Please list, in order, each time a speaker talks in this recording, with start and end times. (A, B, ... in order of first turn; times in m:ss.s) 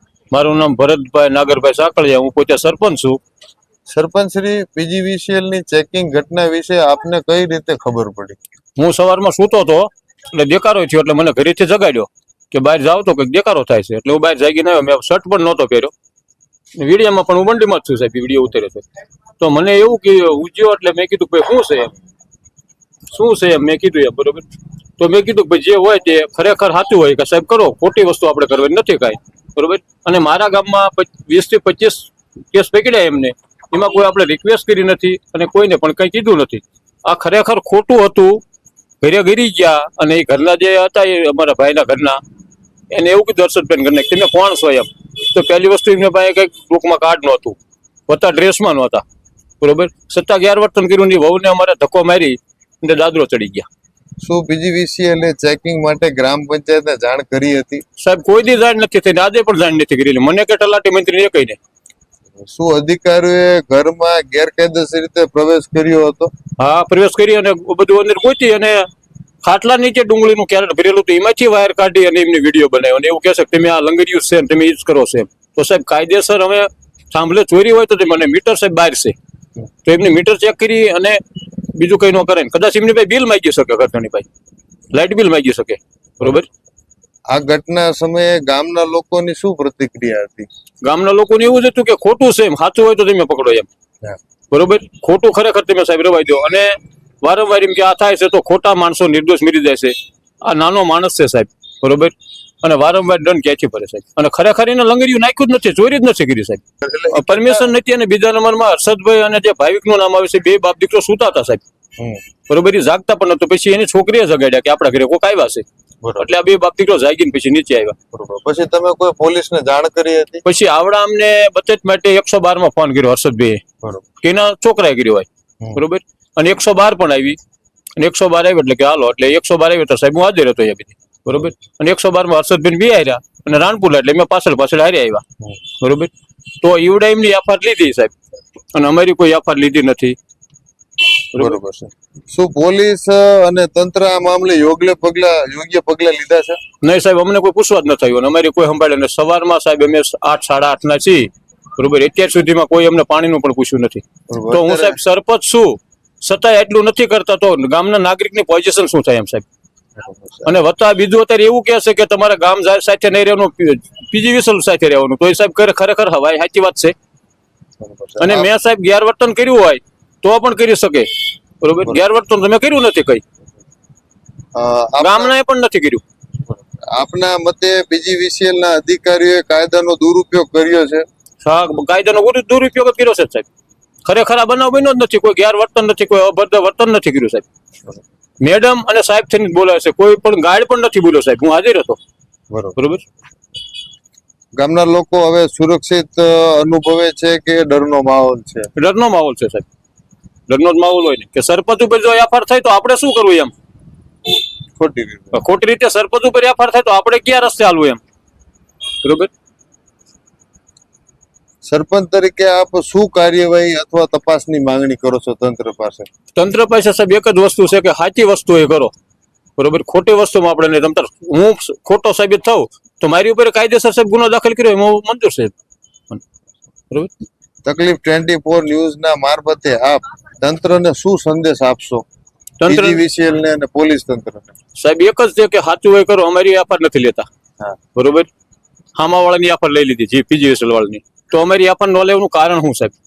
0:00.3-0:03.2 A
0:03.9-0:08.4 B
0:08.8-0:15.9 A
0:16.8-0:18.8 A
0:19.4-0:21.9 A
0:23.1-0:24.4 A
0:25.0-0:38.4 A
0:39.0-0:42.2 A
0:42.9-0:47.6 A
0:48.1-0:49.0 A
0:49.6-0:53.7 A
0:54.2-0:57.8 B
0:58.0-1:01.6 A
1:02.4-1:06.3 B
1:06.6-1:08.9 A
1:09.4-1:19.1 A
1:19.8-1:24.2 A
1:24.9-1:26.5 A
1:27.3-1:30.5 B
1:30.8-1:33.7 A
1:34.5-1:51.6 A
1:46.8-1:47.7 B
1:52.5-1:55.6 A
1:56.0-1:56.3 B
1:56.2-1:58.0 A
1:58.1-2:00.4 B
2:00.4-2:03.6 A
2:04.2-2:07.4 A
2:08.0-2:15.2 A
2:15.8-2:18.1 A
2:18.7-2:20.2 A
2:21.3-2:26.6 B
2:26.8-2:39.4 A
2:34.3-2:35.0 B
2:40.0-2:40.5 B
2:40.4-2:46.9 A
2:47.8-2:48.5 B
2:48.2-2:51.1 A
2:51.6-2:53.2 A
2:54.5-2:55.3 B
2:55.0-2:56.0 A
2:56.5-3:01.0 B
3:01.4-3:03.5 A
3:04.0-3:07.4 A
3:08.4-3:12.0 A
3:12.5-3:12.8 B
3:12.8-3:13.0 A
3:14.6-3:18.7 B
3:18.7-3:19.6 A
3:20.5-3:23.5 A
3:24.8-3:25.4 B
3:25.3-3:28.0 A
3:29.0-3:29.3 A
3:31.6-3:36.1 B
3:36.3-3:38.9 A
3:39.6-3:45.5 A
3:47.6-3:52.0 B
3:52.6-3:53.0 A
3:52.6-3:54.5 B
3:54.8-3:57.2 A
3:57.9-3:58.3 A
3:59.0-4:02.9 A